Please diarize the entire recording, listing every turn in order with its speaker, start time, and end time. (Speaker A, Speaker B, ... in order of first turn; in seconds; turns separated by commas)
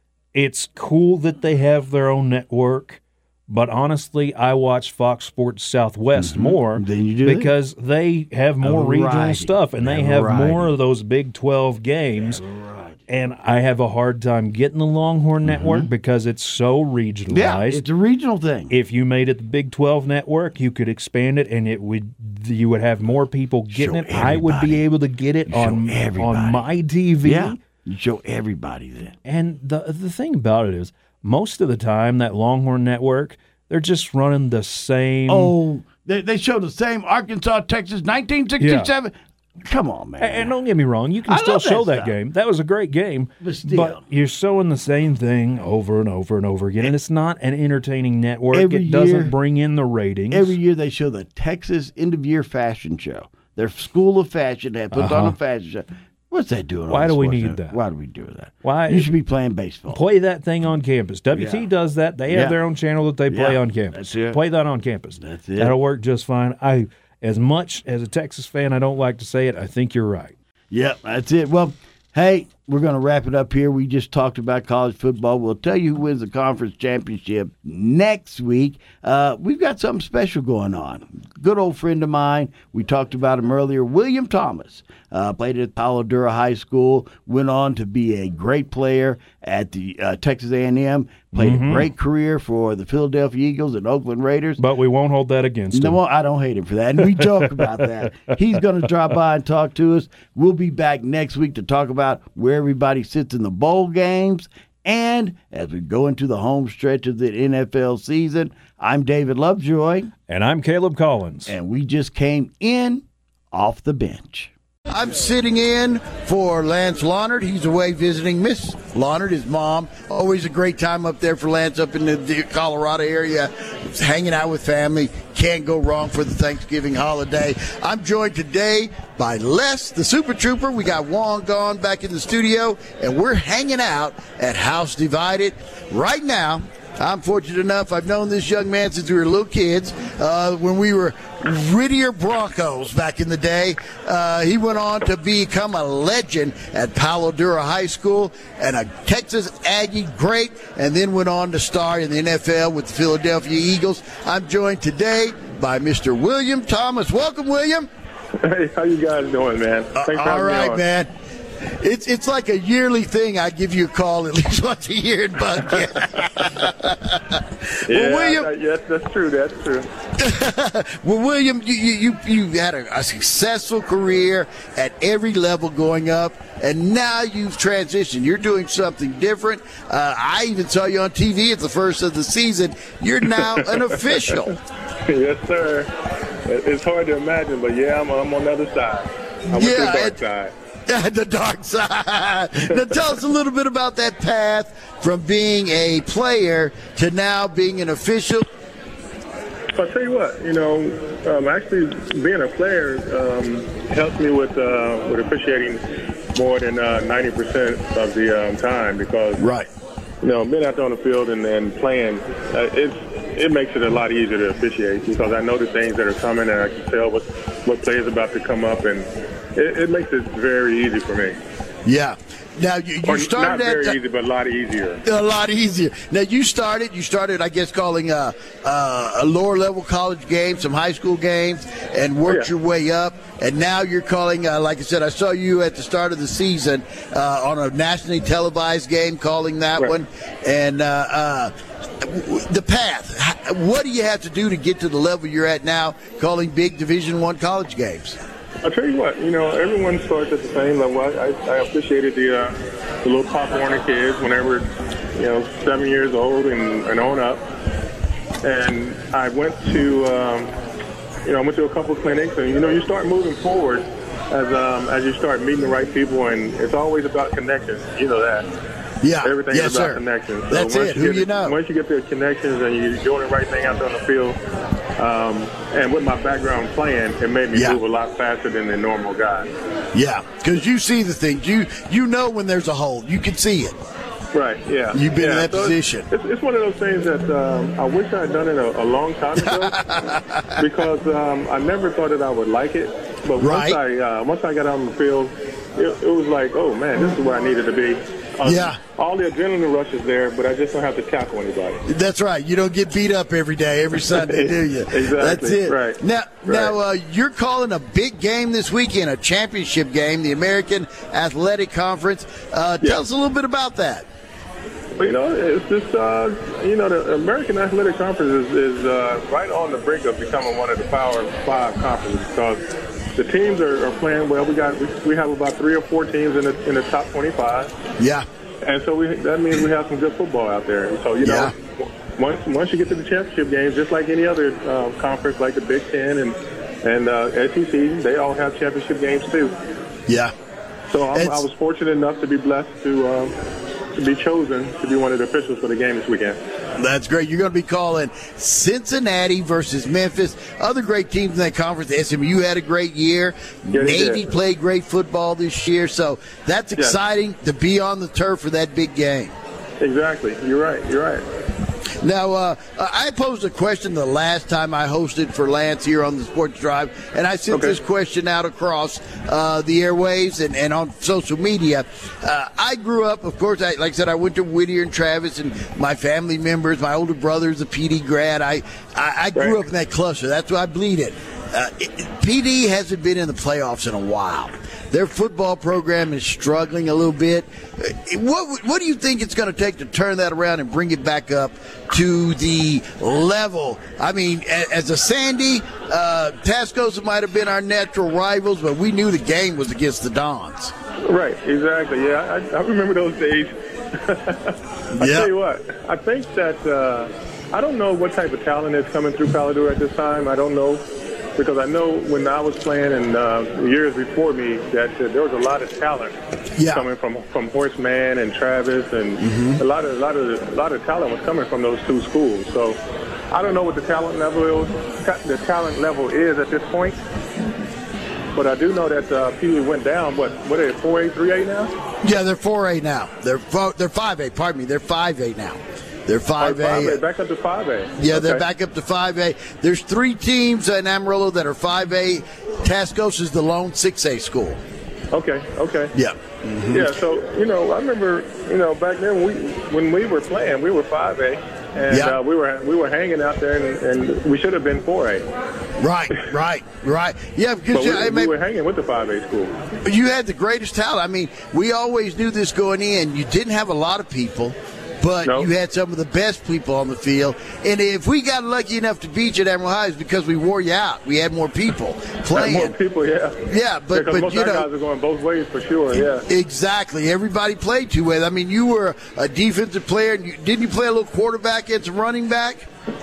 Speaker A: 0.3-12.4, Speaker B: 6.2-7.5, Speaker B: 8.6-10.7, Speaker B: 12.2-13.0, Speaker A: 13.1-17.8, Speaker B: 15.4-15.9, Speaker B: 17.3-18.7, Speaker A: 18.7-27.6, Speaker B: 23.7-24.9, Speaker B: 25.5-26.6, Speaker B: 27.2-29.1, Speaker A: 29.2-35.5, Speaker B: 35.3-40.5, Speaker A: 38.6-38.9, Speaker A: 40.2-50.6, Speaker B: 41.2-42.1, Speaker B: 43.4-44.0, Speaker B: 48.5-49.3, Speaker B: 50.3-60.0, Speaker A: 54.9-55.4, Speaker A: 56.9-57.8, Speaker A: 58.6-59.1, Speaker A: 59.9-70.3, Speaker B: 61.3-61.6, Speaker B: 62.3-62.6, Speaker B: 63.3-64.4, Speaker B: 65.2-65.8, Speaker B: 70.7-94.6, Speaker A: 91.3-91.9, Speaker A: 94.6-96.0, Speaker B: 95.7-110.1, Speaker A: 97.2-97.9, Speaker A: 110.3-111.5, Speaker B: 111.5-157.9, Speaker C: 158.4-160.8, Speaker B: 159.9-161.1, Speaker B: 161.8-168.5, Speaker C: 167.9-169.9, Speaker B: 170.2-184.6, Speaker C: 183.4-184.5, Speaker C: 185.1-185.9, Speaker C: 186.4-190.5, Speaker B: 189.5-190.2, Speaker B: 190.9-198.4, Speaker C: 199.7-205.8, Speaker C: 206.3-209.4, Speaker B: 209.4-209.7, Speaker C: 210.2-221.4, Speaker B: 221.8-224.0, Speaker C: 223.1-225.0, Speaker B: 225.0-248.2, Speaker C: 248.6-257.4, Speaker C: 258.4-260.5, Speaker C: 261.2-268.5, Speaker B: 269.0-271.6, Speaker C: 269.2-274.4, Speaker C: 275.0-279.5, Speaker B: 277.5-277.8, Speaker B: 279.9-283.8, Speaker C: 284.3-289.8, Speaker B: 284.9-286.1, Speaker B: 289.4-290.6, Speaker C: 290.6-301.8, Speaker B: 293.4-293.8, Speaker B: 298.4-298.8, Speaker B: 301.8-314.1, Speaker C: 304.1-306.7, Speaker C: 315.0-322.6, Speaker C: 323.2-327.7, Speaker B: 328.0-328.2, Speaker C: 328.6-331.6, Speaker B: 331.2-331.5, Speaker C: 332.2-339.6, Speaker B: 340.1-340.3, Speaker C: 340.9-343.3, Speaker B: 341.1-341.4, Speaker C: 343.9-346.4, Speaker B: 346.8-359.3, Speaker C: 353.7-354.3, Speaker C: 359.8-361.2, Speaker B: 362.0-400.7, Speaker C: 367.5-367.8, Speaker C: 401.1-410.8, Speaker B: 404.9-405.3, Speaker C: 411.4-416.1, Speaker B: 416.6-416.9, Speaker C: 416.7-422.8, Speaker B: 419.2-419.6, Speaker C: 423.3-427.0, Speaker C: 428.3-431.7, Speaker B: 432.0-437.0, Speaker C: 436.4-438.4, Speaker B: 438.0-444.6, Speaker C: 445.1-445.9, Speaker B: 445.9-446.9, Speaker C: 446.7-455.2, Speaker B: 451.9-452.2, Speaker B: 455.8-458.3, Speaker C: 457.7-459.6, Speaker B: 459.8-472.7, Speaker C: 472.3-476.2, Speaker B: 473.5-474.6, Speaker B: 476.2-482.6